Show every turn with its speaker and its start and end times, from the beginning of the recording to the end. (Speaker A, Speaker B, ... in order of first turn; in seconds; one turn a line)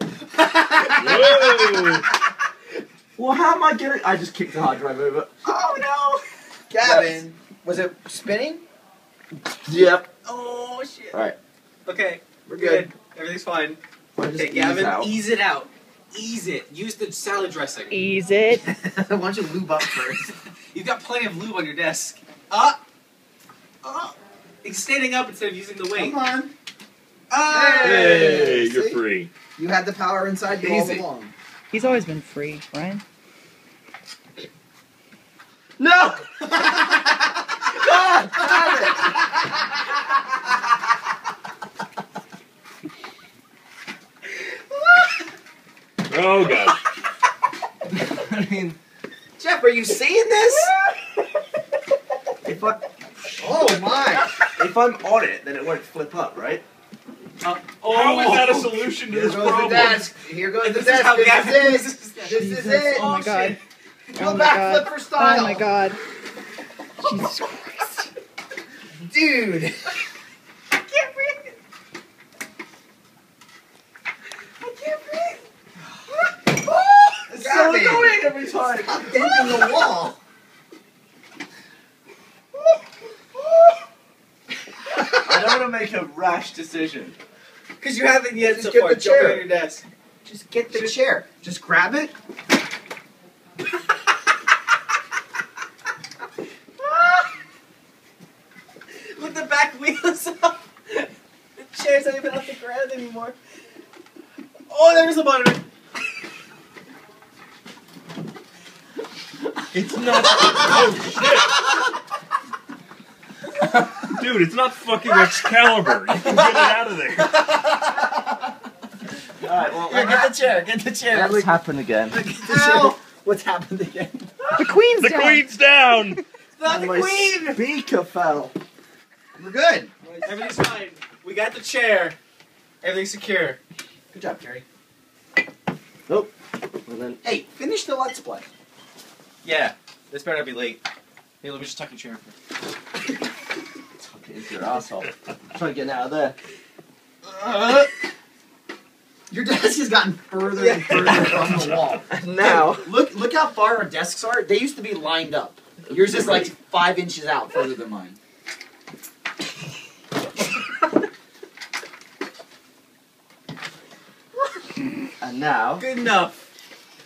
Speaker A: 0.4-2.0
Speaker B: 0.9-2.1
Speaker C: 3.2-5.3
Speaker A: 5.5-6.2
Speaker D: 6.7-8.6
Speaker C: 6.8-7.2
Speaker C: 9.7-10.1
Speaker A: 10.2-11.3
Speaker A: 11.8-13.8
Speaker D: 12.5-12.9
Speaker C: 14.2-15.1
Speaker A: 14.3-18.0
Speaker E: 17.9-18.6
Speaker D: 18.6-20.3
Speaker A: 20.0-22.8
Speaker A: 23.8-26.2
Speaker D: 26.0-26.5
Speaker A: 27.3-28.5
Speaker D: 27.4-29.0
Speaker B: 27.8-29.3
Speaker D: 29.6-31.3
Speaker C: 30.6-31.0
Speaker E: 31.7-33.0
Speaker D: 37.8-39.2
Speaker C: 37.9-38.9
Speaker B: 46.0-46.8
Speaker C: 48.1-48.8
Speaker D: 49.4-50.7
Speaker C: 52.4-52.8
Speaker D: 53.4-54.3
Speaker C: 54.6-56.6
Speaker A: 57.4-58.7
Speaker B: 57.8-60.1
Speaker D: 59.1-63.2
Speaker A: 60.6-63.6
Speaker E: 62.3-63.6
Speaker E: 64.2-66.0
Speaker D: 64.2-65.7
Speaker E: 67.0-68.1
Speaker D: 69.1-69.8
Speaker A: 70.8-71.5
Speaker A: 74.6-75.4
Speaker A: 76.6-77.1
Speaker C: 77.2-79.6
Speaker D: 77.4-80.2
Speaker C: 85.2-87.2
Speaker A: 87.8-89.8
Speaker D: 88.4-89.5
Speaker D: 90.2-92.1
Speaker A: 96.8-97.3
Speaker A: 99.1-103.4
Speaker A: 104.7-105.6
Speaker B: 109.7-111.6
Speaker B: 114.1-117.5
Speaker C: 119.4-120.4
Speaker D: 119.9-121.5
Speaker C: 121.1-122.2
Speaker D: 122.1-124.3
Speaker A: 122.2-123.0
Speaker E: 124.6-125.5
Speaker B: 125.0-126.2
Speaker A: 126.6-127.7
Speaker C: 126.6-128.6
Speaker D: 129.4-129.9
Speaker A: 130.2-132.2
Speaker A: 132.8-133.6
Speaker D: 134.1-134.6
Speaker A: 134.3-134.6
Speaker C: 136.1-136.3
Speaker C: 136.8-137.2
Speaker D: 137.2-138.5
Speaker A: 139.4-140.8
Speaker A: 141.4-142.4
Speaker C: 144.0-146.4
Speaker C: 147.3-147.9
Speaker D: 149.3-158.2
Speaker A: 150.6-151.6
Speaker C: 152.1-152.9
Speaker C: 165.2-165.9
Speaker A: 165.8-166.5